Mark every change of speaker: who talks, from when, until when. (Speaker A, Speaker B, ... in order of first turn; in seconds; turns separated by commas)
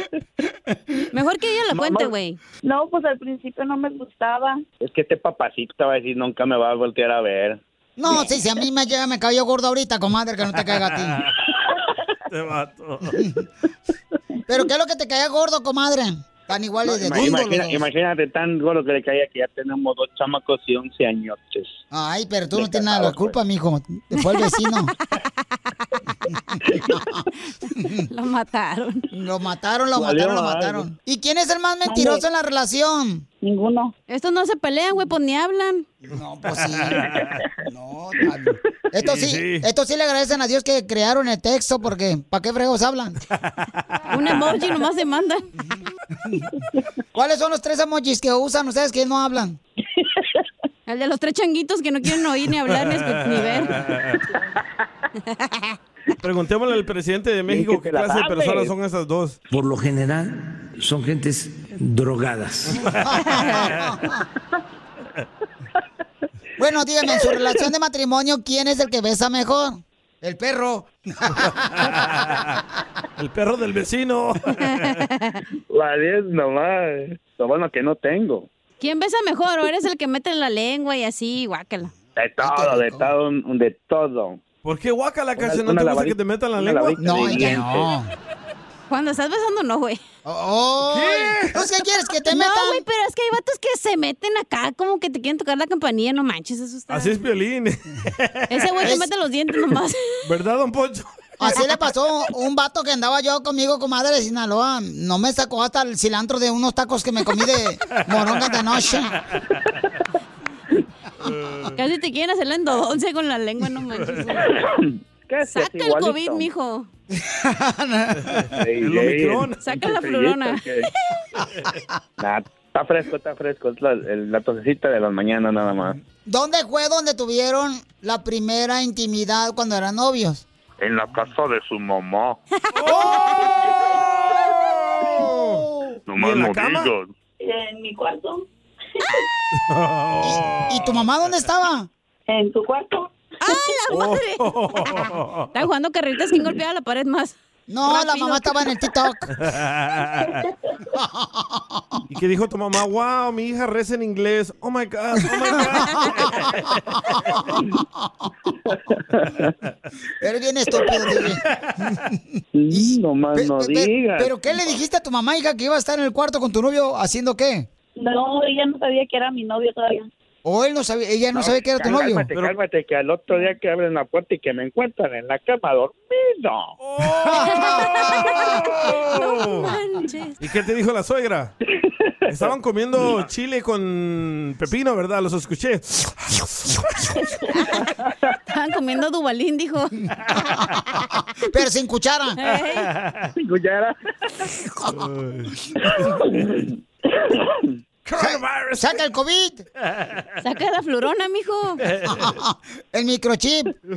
Speaker A: 1.1-2.4, Speaker B: 1.7-2.1, Speaker C: 2.6-4.6, Speaker B: 4.8-7.6, Speaker D: 8.0-11.2, Speaker E: 10.6-11.3, Speaker E: 12.3-13.2, Speaker D: 13.1-13.4, Speaker D: 14.5-17.8, Speaker B: 16.9-21.8, Speaker D: 21.9-24.9, Speaker B: 22.6-23.4, Speaker D: 26.5-27.2, Speaker D: 27.8-28.1, Speaker A: 28.1-29.0, Speaker D: 29.1-33.2, Speaker B: 30.0-30.9, Speaker C: 31.9-32.2, Speaker C: 33.4-33.9, Speaker A: 34.1-35.9, Speaker D: 36.1-37.1, Speaker E: 36.7-37.4, Speaker D: 37.7-43.2, Speaker E: 39.0-39.6, Speaker E: 43.4-44.0, Speaker A: 44.1-45.5, Speaker D: 47.1-49.6, Speaker A: 50.9-53.9, Speaker E: 52.7-54.2, Speaker A: 55.3-55.8, Speaker E: 56.2-59.4, Speaker B: 57.5-58.7, Speaker F: 59.5-62.9, Speaker E: 62.8-63.6, Speaker D: 62.9-64.2, Speaker D: 66.6-71.9, Speaker E: 71.7-72.6, Speaker E: 73.2-75.0, Speaker A: 74.7-75.4, Speaker B: 75.7-78.5, Speaker A: 78.8-81.9, Speaker B: 82.2-84.4, Speaker D: 82.4-83.1, Speaker E: 84.6-87.0, Speaker B: 85.4-87.9, Speaker D: 87.0-88.1, Speaker A: 88.9-90.0, Speaker D: 90.2-92.8, Speaker E: 90.9-91.6, Speaker A: 92.3-97.2, Speaker E: 96.9-98.6, Speaker A: 98.5-100.0, Speaker D: 98.8-99.1, Speaker E: 100.2-101.1, Speaker D: 101.4-109.1, Speaker E: 108.0-108.6, Speaker E: 109.3-109.6, Speaker E: 111.2-111.8, Speaker A: 111.8-114.6, Speaker E: 114.0-114.3, Speaker B: 114.4-116.5, Speaker A: 115.5-116.9, Speaker D: 117.1-118.5, Speaker E: 118.2-119.6, Speaker B: 118.5-120.9, Speaker A: 119.6-120.9, Speaker B: 122.2-126.0, Speaker D: 126.2-130.4, Speaker B: 130.8-132.4, Speaker E: 132.8-135.6, Speaker A: 132.9-133.5, Speaker D: 135.0-136.0, Speaker B: 136.1-137.1, Speaker E: 136.2-136.9, Speaker C: 137.4-138.4, Speaker E: 139.7-141.1, Speaker D: 140.2-141.9, Speaker C: 142.3-143.7, Speaker A: 143.4-145.0, Speaker E: 143.9-145.5, Speaker A: 145.5-148.7, Speaker D: 147.7-149.3, Speaker E: 149.4-150.5, Speaker D: 150.9-151.8, Speaker E: 152.1-156.7, Speaker D: 155.8-156.2, Speaker D: 157.3-158.1, Speaker B: 158.7-159.5, Speaker D: 160.2-167.7, Speaker B: 162.6-164.3, Speaker C: 168.0-170.1, Speaker D: 170.4-172.3, Speaker B: 171.3-176.7, Speaker E: 176.8-179.7, Speaker D: 177.2-178.8, Speaker A: 177.5-180.3, Speaker E: 180.4-181.5, Speaker B: 181.8-182.5, Speaker E: 182.3-186.7, Speaker A: 187.5-187.9, Speaker A: 188.5-190.0, Speaker D: 191.5-192.4, Speaker A: 192.4-192.9, Speaker E: 192.9-193.3, Speaker B: 193.4-194.5, Speaker E: 194.9-196.1, Speaker B: 195.9-197.6, Speaker E: 198.1-198.9, Speaker D: 198.2-199.6, Speaker E: 200.0-200.2, Speaker A: 200.4-201.8, Speaker E: 201.8-202.4, Speaker D: 202.1-203.7